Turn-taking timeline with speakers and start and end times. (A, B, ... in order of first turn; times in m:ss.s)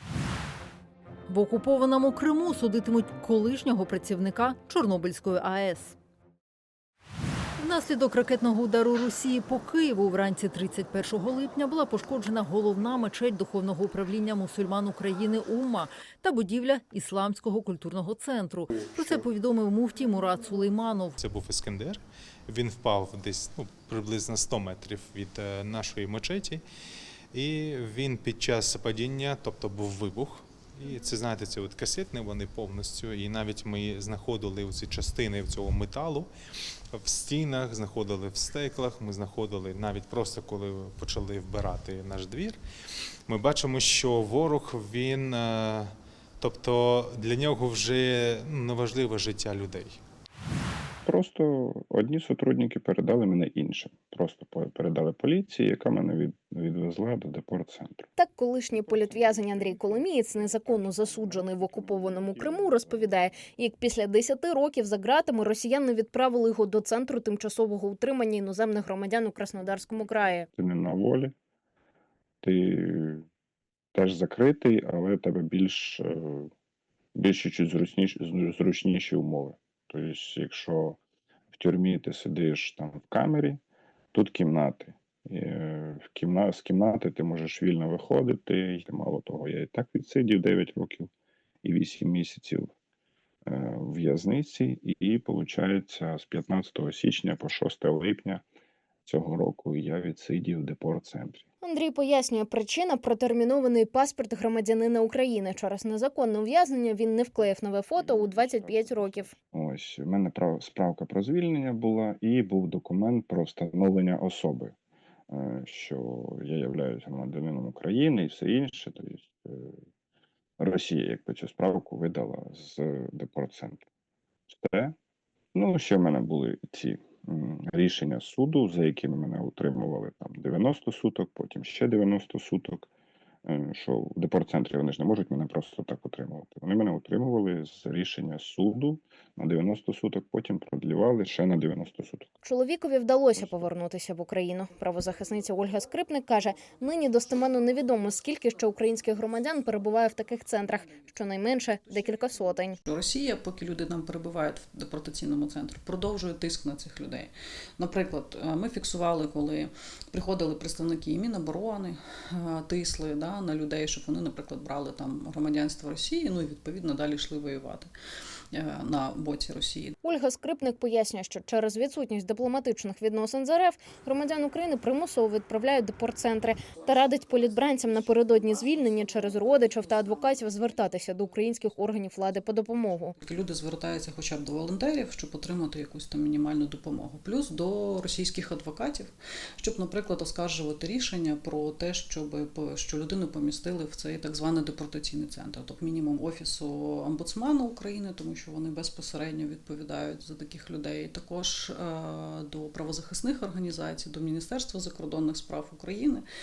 0:01.3-0:06.0 A
0:07.6-0:21.2 A
0:21.2-0:26.6 B
0:27.3-0:36.3 B
0:36.9-0:42.6 B
0:43.3-0:50.0 B
0:51.0-0:58.1 C
0:58.2-1:10.5 D
1:10.6-1:11.3 C
1:12.4-1:13.2 C
1:13.9-1:16.5 C
1:17.1-1:21.0 C
1:21.5-1:23.6 C
1:24.1-1:31.1 C
1:31.6-1:32.7 C
1:33.4-1:38.4 C
1:39.0-1:41.4 C
1:41.6-1:49.3 D
1:48.0-1:54.7 C
1:55.3-1:59.8 C
2:00.6-2:03.8 C
2:04.5-2:05.0 C
2:05.5-2:12.9 C
2:13.4-2:22.3 C
2:22.4-2:32.8 D
2:32.8-2:47.9 E
2:48.5-2:50.0 E
2:50.0-3:03.2 D
3:03.2-3:26.2 E